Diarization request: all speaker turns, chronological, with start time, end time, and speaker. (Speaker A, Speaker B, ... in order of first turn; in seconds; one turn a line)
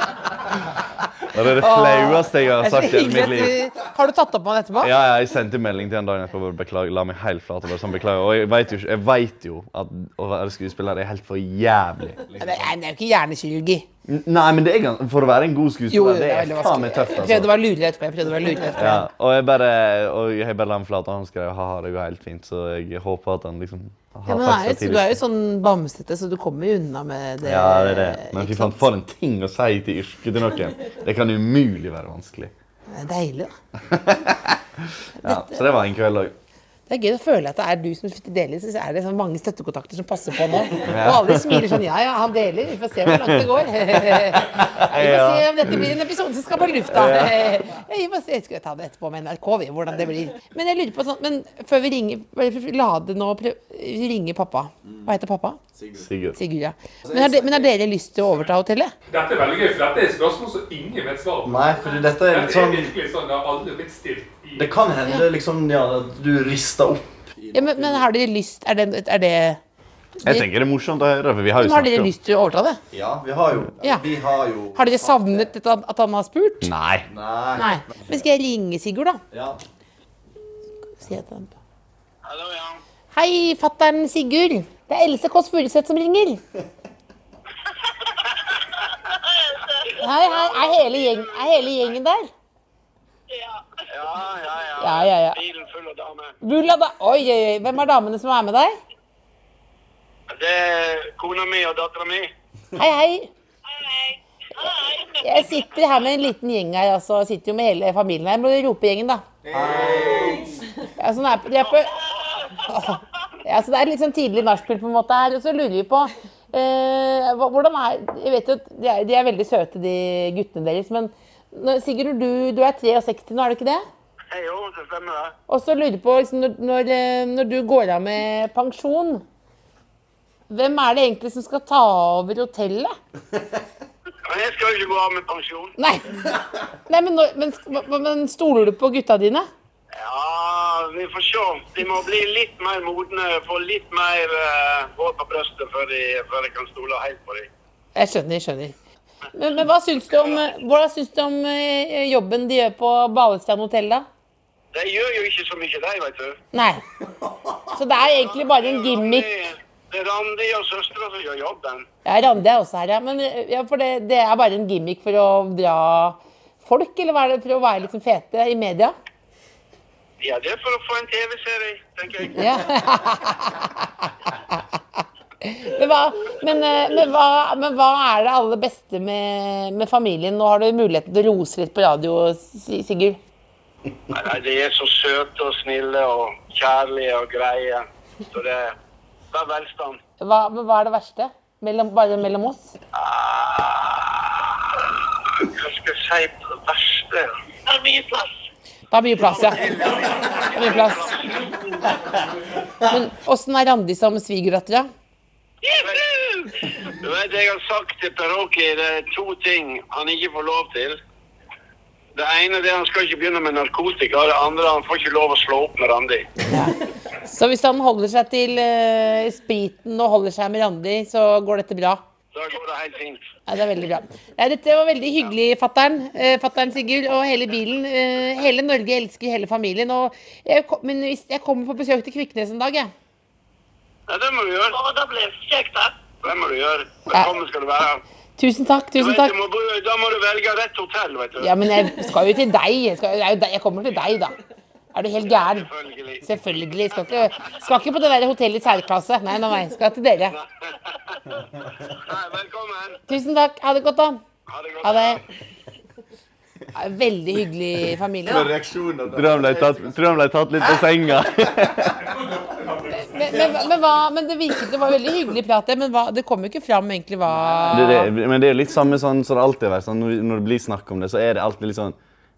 Speaker A: 1.3-3.6
Speaker B: 1.6-4.9
Speaker A: 4.8-12.3
Speaker C: 12.3-12.7
Speaker B: 12.4-13.9
Speaker A: 14.1-17.5
Speaker B: 15.9-19.1
Speaker A: 18.7-25.2
Speaker B: 24.3-28.8
Speaker A: 27.4-32.5
Speaker B: 32.9-33.5
Speaker A: 33.9-36.4
Speaker B: 35.2-35.7
Speaker B: 36.9-55.6
Speaker A: 40.8-41.8
Speaker A: 43.1-45.9
Speaker A: 46.9-47.6
Speaker C: 54.9-55.1
Speaker C: 55.8-56.1
Speaker A: 56.0-56.4
Speaker B: 56.4-58.9
Speaker C: 57.0-57.7
Speaker D: 59.1-61.7
Speaker C: 61.4-62.9
Speaker D: 62.2-64.7
Speaker C: 64.6-68.0
Speaker B: 67.5-69.6
Speaker B: 70.2-70.5
Speaker A: 70.2-72.1
Speaker B: 71.6-72.8
Speaker C: 72.9-75.5
Speaker B: 74.7-76.7
Speaker A: 76.6-77.1
Speaker C: 77.1-78.2
Speaker B: 77.6-79.2
Speaker C: 79.3-79.6
Speaker B: 81.0-81.5
Speaker E: 82.2-82.8
Speaker B: 83.1-86.4
Speaker E: 88.0-91.8
Speaker B: 90.0-92.3
Speaker E: 93.8-96.3
Speaker B: 94.8-95.4
Speaker B: 96.4-98.8
Speaker E: 100.3-102.3
Speaker B: 102.8-103.3
Speaker E: 104.6-105.2
Speaker B: 105.2-109.2
Speaker C: 109.5-110.6
Speaker B: 111.0-112.0
Speaker B: 112.6-123.8
Speaker E: 124.3-125.3
Speaker B: 125.5-129.2
Speaker B: 130.5-133.0
Speaker E: 134.3-135.8
Speaker B: 135.8-136.3
Speaker B: 136.9-139.5
Speaker E: 139.9-147.5
Speaker B: 148.0-148.8
Speaker B: 149.3-154.1
Speaker E: 150.1-150.4
Speaker E: 154.7-156.4
Speaker B: 156.5-156.8
Speaker B: 157.7-159.3
Speaker E: 158.4-161.8
Speaker B: 162.1-168.9
Speaker E: 170.2-172.6
Speaker B: 172.3-183.2
Speaker E: 184.1-188.7
Speaker E: 189.3-190.0
Speaker B: 190.2-192.7
Speaker E: 192.9-198.2
Speaker B: 198.9-201.2
Speaker E: 199.6-201.5
Speaker B: 202.8-204.9
Speaker E: 205.7-211.0
Speaker E: 212.2-216.3
Speaker B: 216.5-222.0
Speaker E: 222.3-223.2
Speaker B: 223.5-232.9
Speaker E: 234.1-238.0
Speaker B: 238.4-239.3
Speaker E: 239.0-241.5
Speaker B: 241.4-244.3
Speaker B: 244.9-245.7
Speaker E: 245.4-246.3
Speaker B: 246.2-250.4
Speaker E: 250.3-253.0
Speaker B: 253.1-254.2
Speaker E: 254.5-255.2
Speaker B: 254.8-255.2
Speaker B: 256.8-258.5
Speaker C: 258.2-260.1
Speaker A: 259.1-262.2
Speaker B: 262.9-268.1
Speaker C: 267.4-267.9
Speaker A: 267.7-272.0